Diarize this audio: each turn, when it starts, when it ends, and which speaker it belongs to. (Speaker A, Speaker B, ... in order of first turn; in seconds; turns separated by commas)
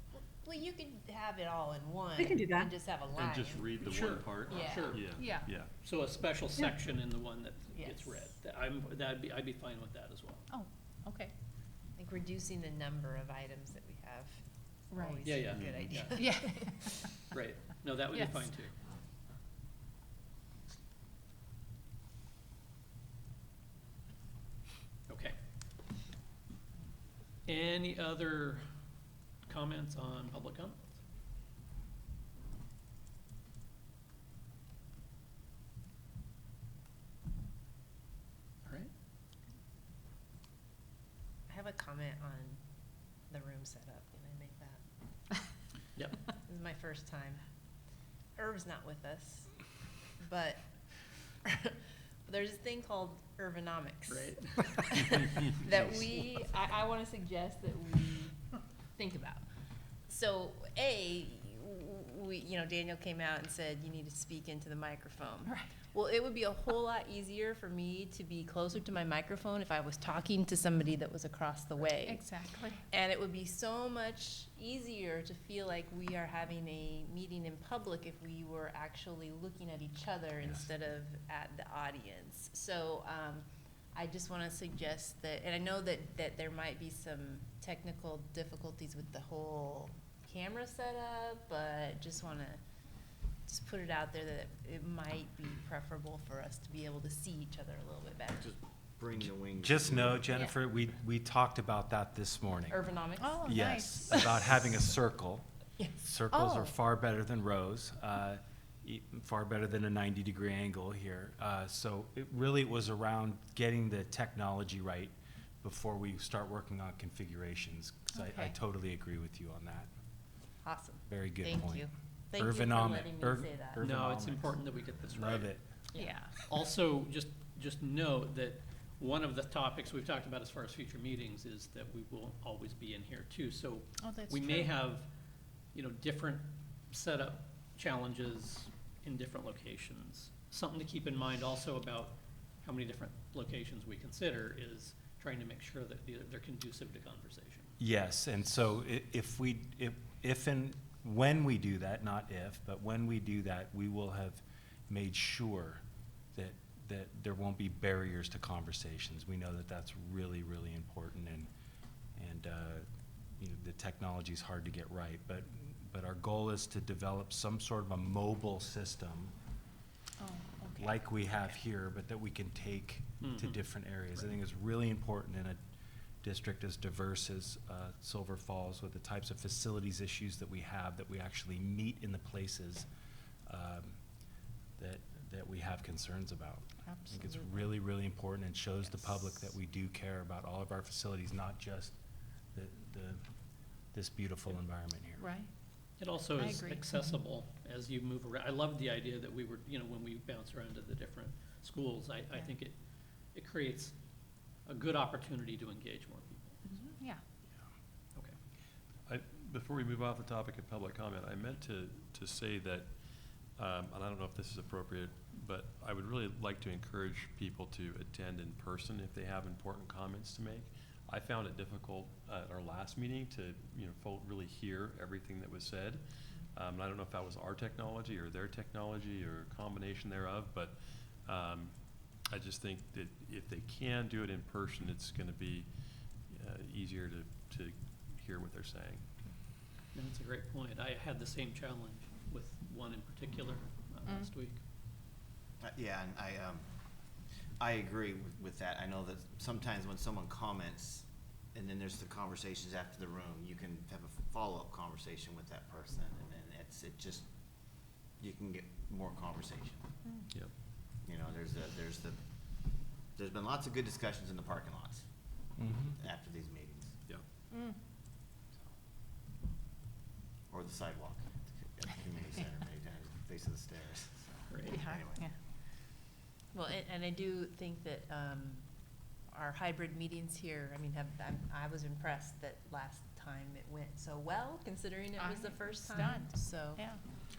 Speaker A: 0.2-3.8, Speaker B: 3.1-5.7, Speaker C: 3.8-5.1, Speaker A: 4.5-5.1, Speaker D: 5.2-5.5, Speaker C: 5.8-10.4, Speaker A: 7.8-8.3, Speaker D: 10.5-11.3, Speaker A: 12.0-14.4, Speaker A: 14.9-16.9, Speaker C: 15.2-16.6, Speaker D: 16.2-17.1, Speaker C: 17.3-18.8, Speaker C: 25.1-25.4, Speaker C: 27.5-28.6, Speaker C: 29.5-31.0, Speaker C: 38.6-38.9, Speaker A: 41.5-42.6, Speaker A: 43.3-44.8, Speaker A: 46.3-47.4, Speaker A: 48.4-49.5, Speaker A: 50.2-50.6, Speaker A: 51.5-58.4, Speaker C: 54.1-55.4, Speaker A: 59.0-59.4, Speaker A: 60.1-72.3, Speaker D: 65.5-65.7, Speaker D: 71.9-72.8, Speaker A: 72.9-92.6, Speaker A: 93.5-98.5, Speaker E: 98.4-100.5, Speaker F: 99.5-102.8, Speaker A: 102.7-104.5, Speaker D: 103.2-104.3, Speaker F: 103.4-105.5, Speaker F: 106.0-119.9, Speaker D: 106.3-106.7, Speaker D: 118.2-118.5, Speaker A: 120.6-123.8, Speaker F: 121.1-125.7, Speaker C: 123.8-125.5, Speaker D: 126.0-126.3, Speaker C: 126.4-135.1, Speaker D: 134.0-134.7, Speaker C: 135.7-147.7, Speaker F: 147.8-155.8, Speaker F: 156.3-161.5, Speaker F: 162.2-162.8, Speaker F: 163.4-169.3, Speaker D: 170.2-171.0, Speaker F: 170.8-175.6, Speaker C: 173.2-173.6, Speaker F: 176.2-182.9, Speaker F: 183.5-184.0, Speaker F: 184.8-191.9, Speaker D: 186.9-187.4, Speaker F: 192.5-193.2, Speaker F: 193.9-195.3, Speaker D: 195.2-195.5, Speaker C: 196.0-202.8, Speaker D: 196.4-197.0, Speaker C: 203.3-203.9, Speaker C: 204.7-206.6, Speaker D: 206.7-207.2, Speaker B: 209.1-239.0, Speaker C: 239.9-244.6, Speaker E: 245.6-246.7, Speaker E: 247.6-257.3, Speaker E: 258.2-259.9, Speaker E: 261.0-262.2, Speaker E: 263.1-265.1, Speaker F: 265.6-266.0, Speaker E: 266.0-267.0, Speaker D: 267.5-267.8, Speaker E: 270.5-275.3, Speaker C: 274.5-274.9, Speaker D: 274.7-275.3, Speaker A: 276.5-278.6, Speaker A: 279.3-286.9, Speaker D: 285.2-287.0